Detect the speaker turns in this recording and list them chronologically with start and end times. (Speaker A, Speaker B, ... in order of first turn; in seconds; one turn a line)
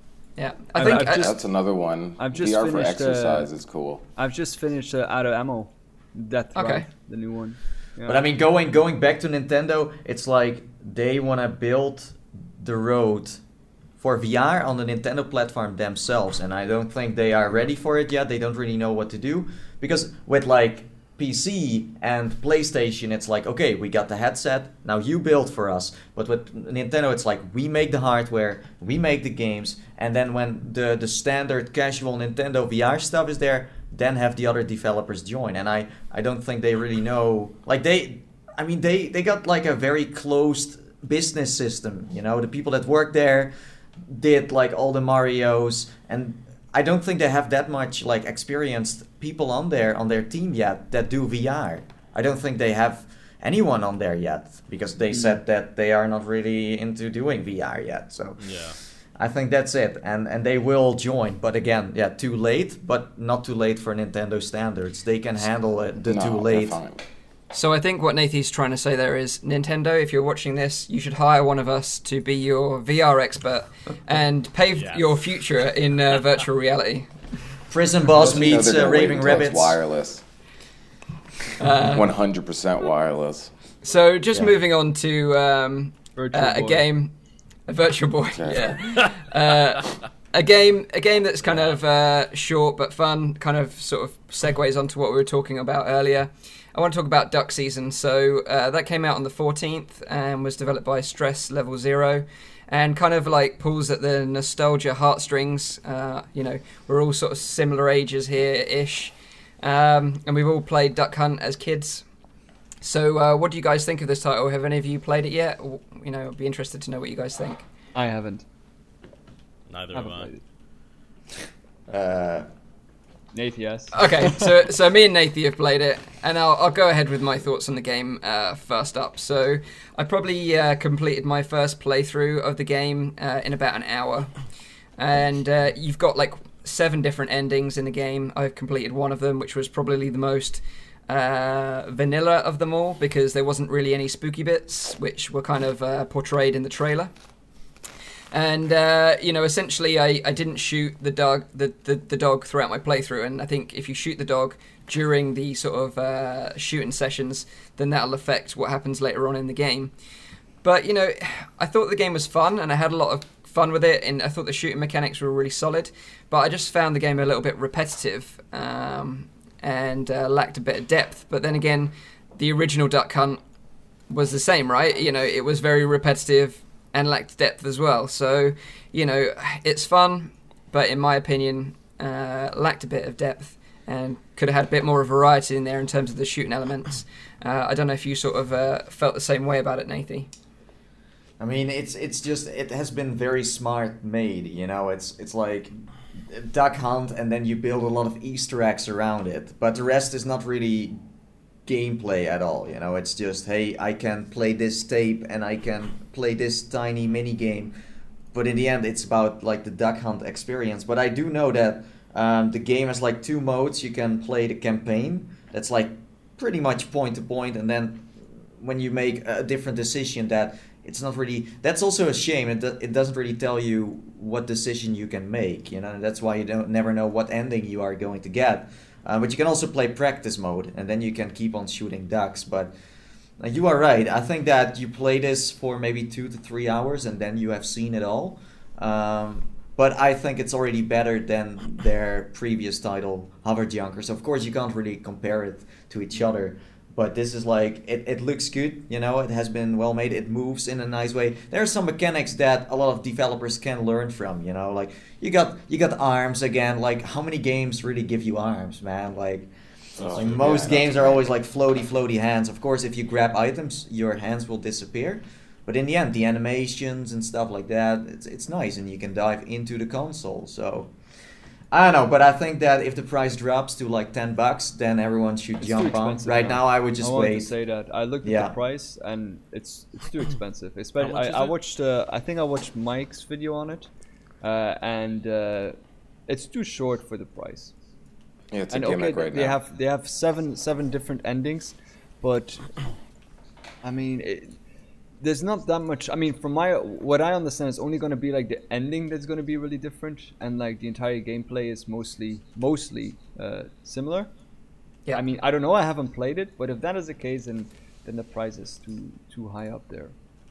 Speaker A: 0.4-1.3
Speaker B: 0.7-1.4
Speaker C: 0.8-4.0
Speaker B: 2.2-3.5
Speaker B: 4.2-8.2
Speaker A: 6.5-6.9
Speaker D: 8.1-13.4
Speaker D: 14.0-43.5
Speaker D: 44.0-66.8
Speaker B: 55.1-55.4
Speaker E: 58.4-58.8
Speaker C: 66.1-67.0
Speaker A: 67.5-77.1
Speaker E: 74.8-75.2
Speaker D: 77.7-79.8
Speaker C: 78.2-80.2
Speaker B: 78.2-78.5
Speaker A: 81.6-82.1
Speaker C: 81.8-83.5
Speaker A: 83.8-87.1
Speaker B: 86.2-86.8
Speaker A: 87.7-112.0
Speaker C: 88.3-88.8
Speaker A: 112.8-117.7
Speaker B: 117.9-118.4
Speaker E: 119.7-120.3
Speaker B: 119.9-120.4
Speaker D: 121.9-122.5
Speaker B: 123.3-124.1
Speaker A: 123.9-134.4
Speaker A: 135.0-147.1
Speaker A: 148.3-159.9
Speaker A: 160.6-173.4
Speaker A: 174.1-190.3
Speaker D: 191.4-201.0
Speaker D: 201.7-207.7
Speaker D: 208.3-232.7
Speaker D: 233.4-270.9
Speaker C: 260.0-261.2
Speaker D: 271.7-277.5
Speaker B: 275.6-283.9
Speaker D: 278.2-278.5
Speaker E: 281.0-281.5
Speaker B: 284.4-285.8
Speaker B: 286.3-287.7
Speaker C: 288.5-289.6
Speaker B: 288.7-292.7
Speaker B: 293.8-294.5
Speaker B: 295.2-304.3
Speaker B: 305.1-310.1